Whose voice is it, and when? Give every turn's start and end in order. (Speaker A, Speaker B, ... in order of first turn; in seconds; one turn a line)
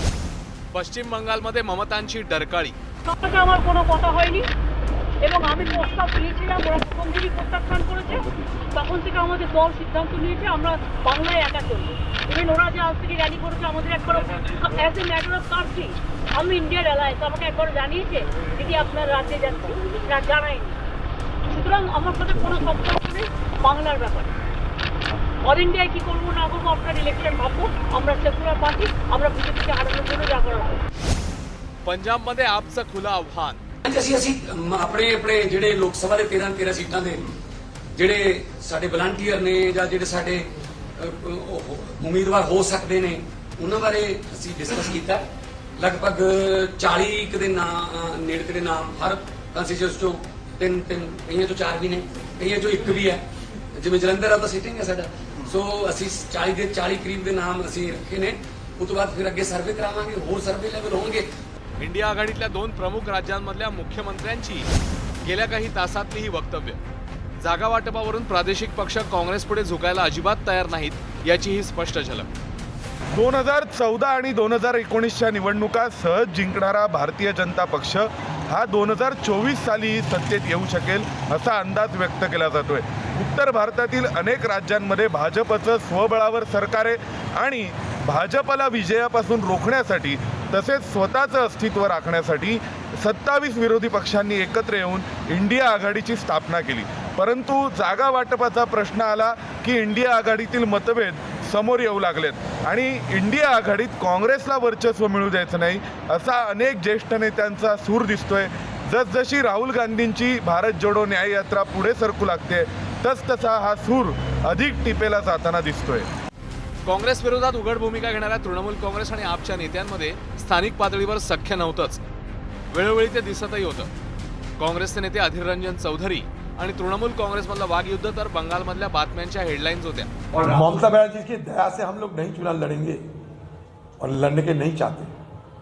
Speaker A: 0.7-2.8
Speaker B: 3.0-4.5
Speaker B: 5.2-20.8
Speaker B: 21.5-24.3
Speaker B: 25.4-30.8
Speaker A: 31.9-33.6
Speaker C: 33.9-37.2
Speaker C: 38.0-40.4
Speaker C: 41.0-45.2
Speaker C: 45.8-53.2
Speaker C: 53.8-61.3
Speaker A: 61.8-64.7
Speaker A: 65.2-66.8
Speaker A: 67.4-72.3
Speaker D: 73.1-116.1
Speaker A: 116.8-122.0
Speaker A: 122.7-123.9
Speaker A: 124.6-130.1
Speaker E: 130.4-133.0
Speaker E: 134.0-135.1